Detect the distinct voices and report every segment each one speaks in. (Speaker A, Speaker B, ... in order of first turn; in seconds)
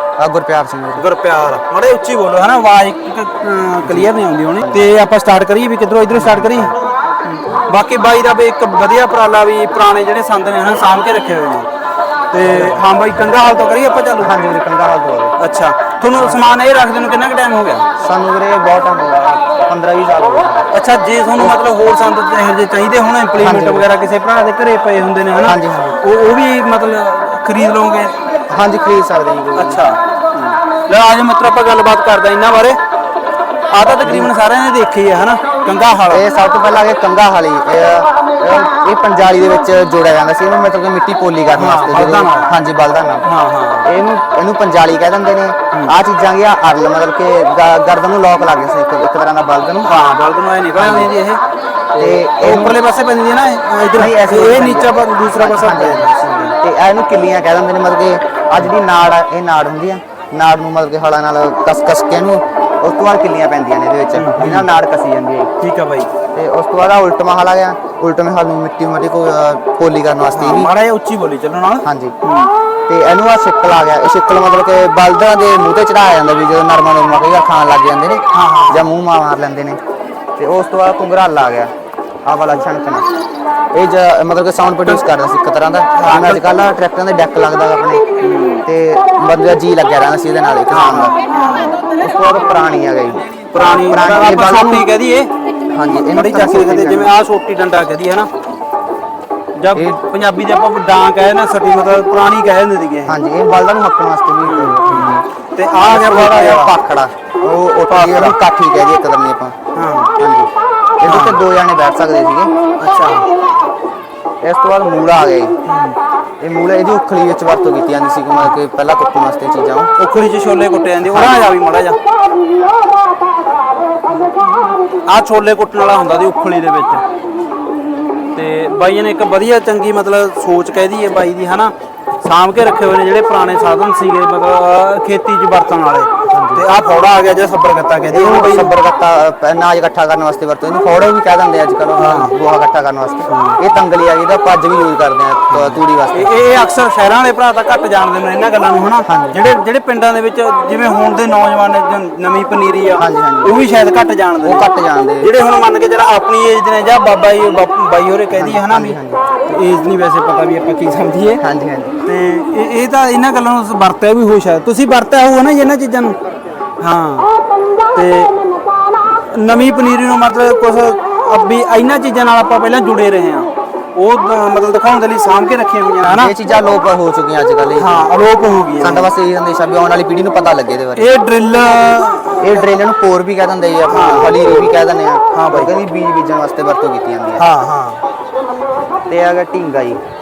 Speaker A: 0.2-1.0, 3.9-4.9, 6.1-6.7, 12.4-12.8, 14.2-15.3, 18.0-20.6, 23.4-23.9, 25.4-26.0, 28.5-29.8, 33.8-34.3, 36.1-43.2, 43.8-50.0, 50.8-51.1, 51.9-52.8, 54.0-65.5, 66.3-70.7, 71.8-72.1, 72.9-79.8, 80.4-81.7, 82.2-83.1, 83.7-88.0, 88.6-91.2, 91.8-94.8, 95.7-97.1, 99.7-100.0, 103.0-105.2, 105.8-109.5, 110.2-110.5, 111.0-112.5, 114.4-115.5, 116.4-119.9, 121.1-121.4, 136.3-136.7, 138.1-146.3, 149.1-149.4, 153.0-153.5, 154.4-155.3, 158.3-159.2, 161.4-161.9, 176.1-178.1, 178.8-181.1, 182.4-187.4, 189.1-190.0
Speaker B: 0.9-6.7, 7.3-11.7, 12.3-14.3, 15.4-17.9, 20.7-28.2, 29.6-32.8, 33.7-36.2, 41.5-42.5, 43.2-43.9, 49.8-51.4, 51.9-56.5, 64.1-64.7, 65.6-66.1, 70.3-72.5, 78.3-78.9, 86.0-86.4, 88.2-88.6, 90.7-91.8, 93.5-95.3, 95.9-98.3, 99.5-103.2, 104.4-106.7, 107.9-108.3, 109.7-110.1, 111.0-111.4, 112.8-113.2, 115.7-116.0, 120.0-122.0, 125.0-127.0, 128.3-138.7, 142.0-142.3, 143.3-143.6, 145.5-154.7, 155.2-161.4, 162.0-166.2, 166.8-167.3, 167.9-168.3, 169.3-176.3, 177.8-179.1, 181.0-182.7, 183.9-184.7, 185.3-185.7, 187.4-188.0